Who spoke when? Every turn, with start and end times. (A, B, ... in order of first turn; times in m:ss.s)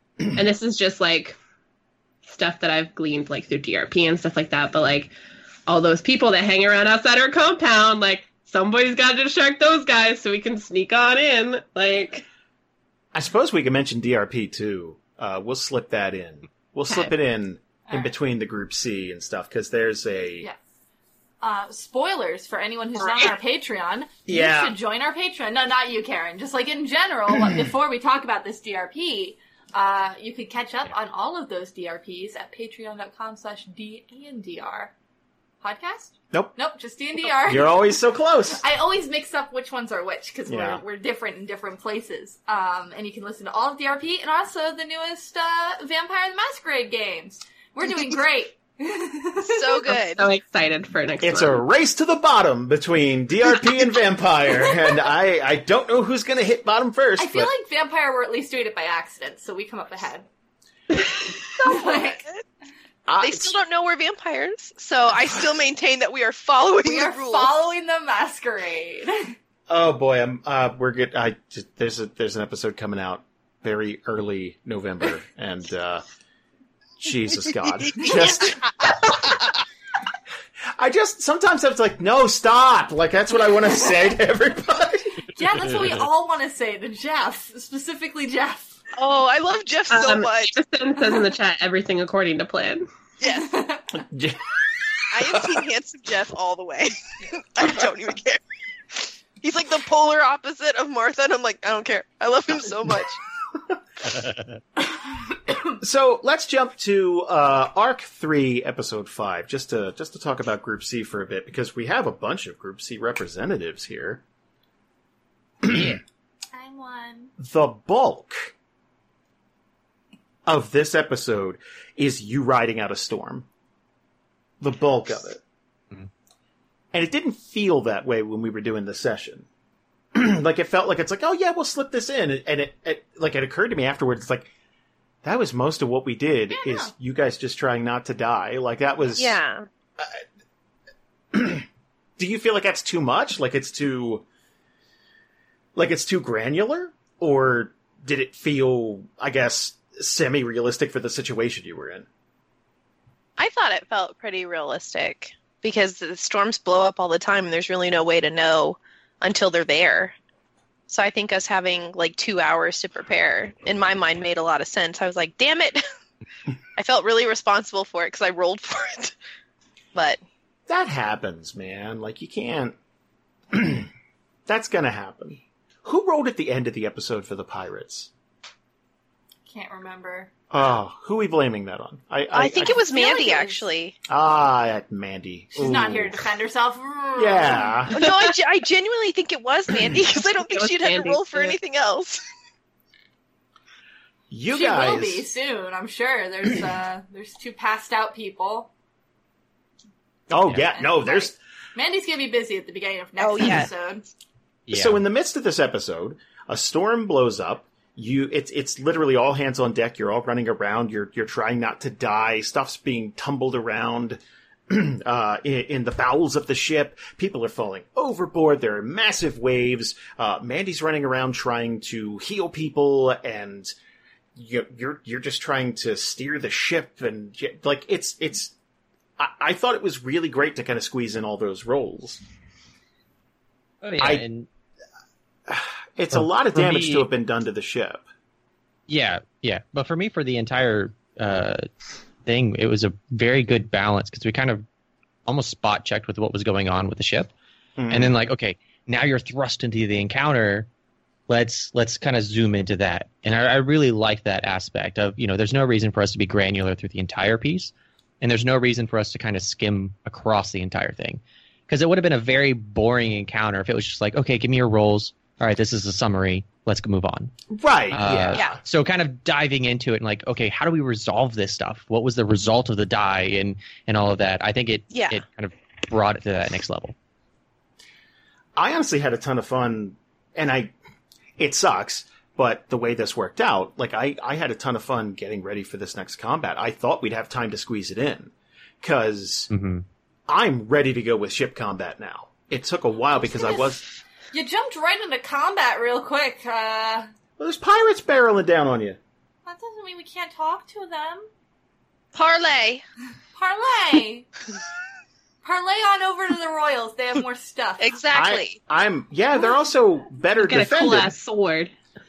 0:00.3-0:01.4 A
0:02.2-0:05.1 A
0:05.7-0:12.2 A
0:13.1-0:20.5 B
0:16.9-0:17.1 A
0:21.4-0:34.9 C
0:24.2-0:24.8 B
0:35.6-0:49.9 C
0:37.3-0:38.6 B
0:40.5-0:40.8 B
0:49.4-0:50.2 D
0:49.9-0:51.6 A
0:51.2-0:57.5 B
0:57.2-1:00.2 C
1:01.6-1:02.2 C
1:01.7-1:02.4 D
1:03.1-1:03.5 B
1:03.2-1:07.5 D
1:06.8-1:09.3 C
1:09.7-1:16.0 B
1:17.0-1:19.5 B
1:17.8-1:19.0 D
1:18.0-1:18.4 C
1:20.8-1:25.2 B
1:25.3-1:28.8 C
1:29.0-1:30.6 D
1:29.9-1:32.9 A
1:33.2-1:33.5 D
1:33.2-1:33.9 C
1:34.0-1:34.6 B
1:35.1-1:38.4 D
1:38.9-1:43.2 D
1:45.8-1:54.2 B
1:55.6-1:56.0 B
1:56.5-1:57.3 C
1:57.4-1:58.5 B
2:00.4-2:03.5 B
2:04.6-2:05.4 B
2:06.9-2:09.4 B
2:10.1-2:14.5 B
2:15.2-2:19.4 B
2:16.5-2:16.9 C
2:19.1-2:19.6 D
2:21.3-2:21.7 B
2:22.2-2:24.2 B
2:25.8-2:32.1 B
2:33.4-2:40.1 D
2:40.9-2:45.8 D
2:46.8-2:49.1 D
2:49.9-2:50.2 D
2:50.7-2:52.7 B
2:53.5-2:53.9 B
2:54.5-2:58.1 B
2:59.4-3:00.3 C
3:00.5-3:03.0 B
3:02.3-3:04.0 D
3:02.8-3:03.6 C
3:04.1-3:06.2 B
3:05.6-3:07.8 C
3:07.2-3:08.0 B
3:07.9-3:08.3 A
3:07.9-3:12.2 D
3:10.2-3:11.6 A
3:14.3-3:15.2 B
3:14.5-3:18.7 C
3:20.3-3:21.4 B
3:20.7-3:24.0 C
3:23.2-3:23.7 D
3:24.7-3:25.0 E
3:24.7-3:43.7 B
3:44.3-3:48.5 B
3:49.2-3:52.2 B
3:53.8-3:54.5 E
3:54.0-3:54.2 B
3:55.5-3:58.0 B
3:56.1-3:57.1 E
3:58.9-4:01.7 E
4:02.2-4:04.6 E
4:05.2-4:07.3 E
4:07.8-4:08.1 B
4:07.9-4:10.7 E
4:11.3-4:27.4 E
4:27.5-4:28.5 B
4:27.9-4:36.9 E
4:28.3-4:28.6 D
4:34.9-4:35.2 D
4:38.6-4:40.7 B
4:41.4-4:49.5 B
4:49.5-4:49.8 E
4:50.3-4:53.8 B
4:53.4-4:53.7 C
4:54.3-4:57.1 C
4:57.4-4:59.0 B
4:59.4-5:01.3 C
5:02.1-5:02.8 D
5:03.4-5:04.3 C
5:05.4-5:07.8 C
5:07.8-5:08.6 D
5:08.1-5:11.1 B
5:10.4-5:11.7 A